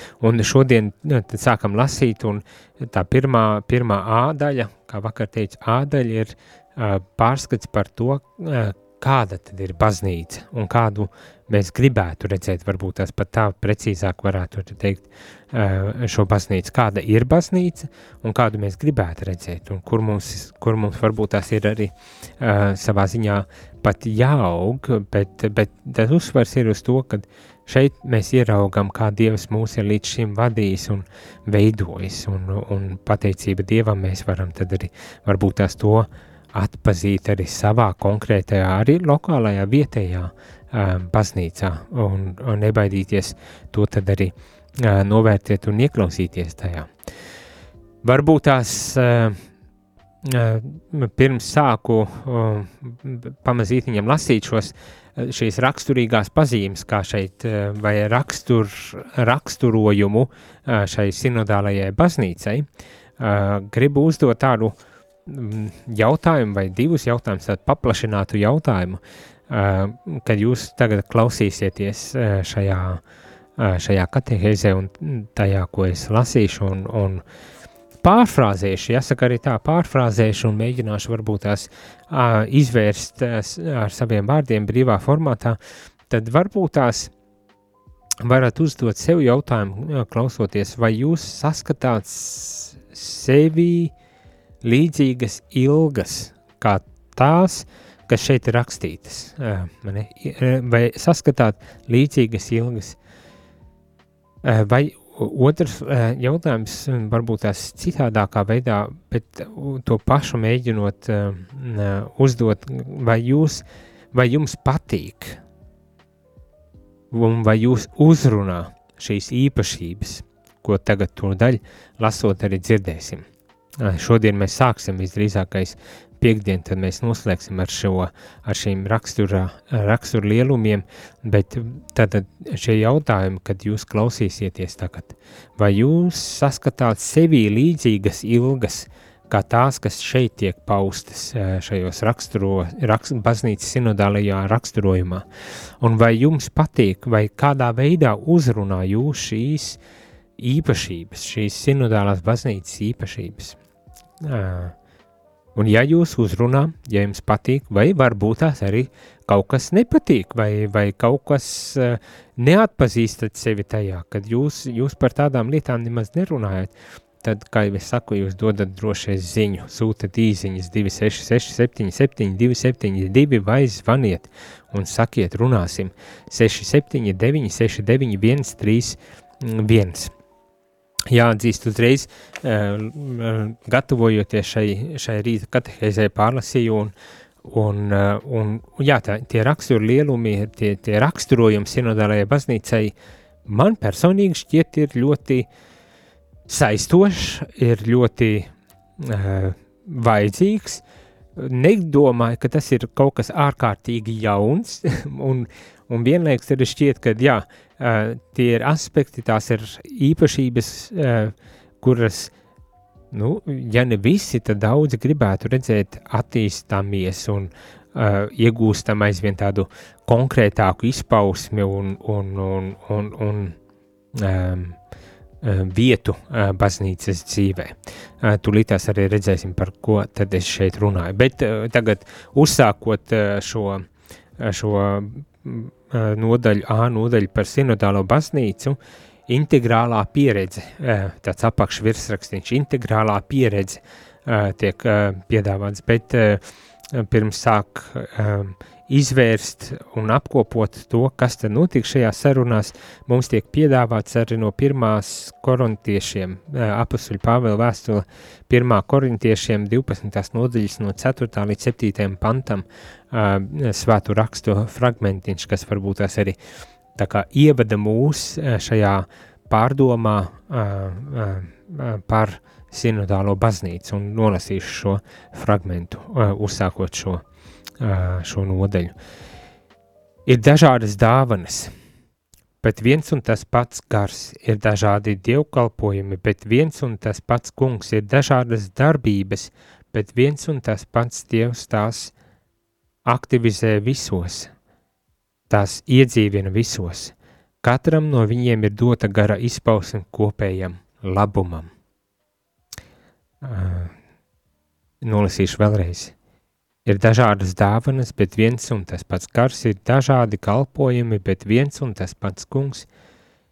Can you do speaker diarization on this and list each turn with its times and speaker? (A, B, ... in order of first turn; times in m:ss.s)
0:00.2-0:46.9 A
0:48.0-0:49.4 A
0:50.2-1:02.7 A
1:03.2-1:13.0 A
1:13.6-1:17.2 A
1:18.0-1:25.6 A
1:26.1-1:27.1 A
1:28.2-1:33.9 A
1:34.6-1:43.0 A
1:44.4-1:55.4 A
1:57.1-2:03.2 A
2:03.8-2:25.2 A
2:25.8-2:29.8 A
2:30.4-2:33.6 A
2:34.2-2:34.8 A
2:35.6-3:00.1 A
3:01.1-3:13.0 A
3:13.5-3:15.5 A
3:16.5-3:20.8 A
3:21.4-3:32.3 A
3:33.1-3:43.6 A
3:44.2-3:44.8 A
3:45.4-3:53.9 A
3:54.4-4:06.4 A
4:06.9-4:26.4 A
4:27.0-4:37.2 A
4:37.8-4:38.9 A
4:40.3-4:41.7 A
4:42.6-4:52.1 A
4:53.1-4:54.5 A
4:55.5-5:01.7 A
5:03.4-5:03.9 A
5:05.0-5:06.2 A
5:06.9-5:12.9 A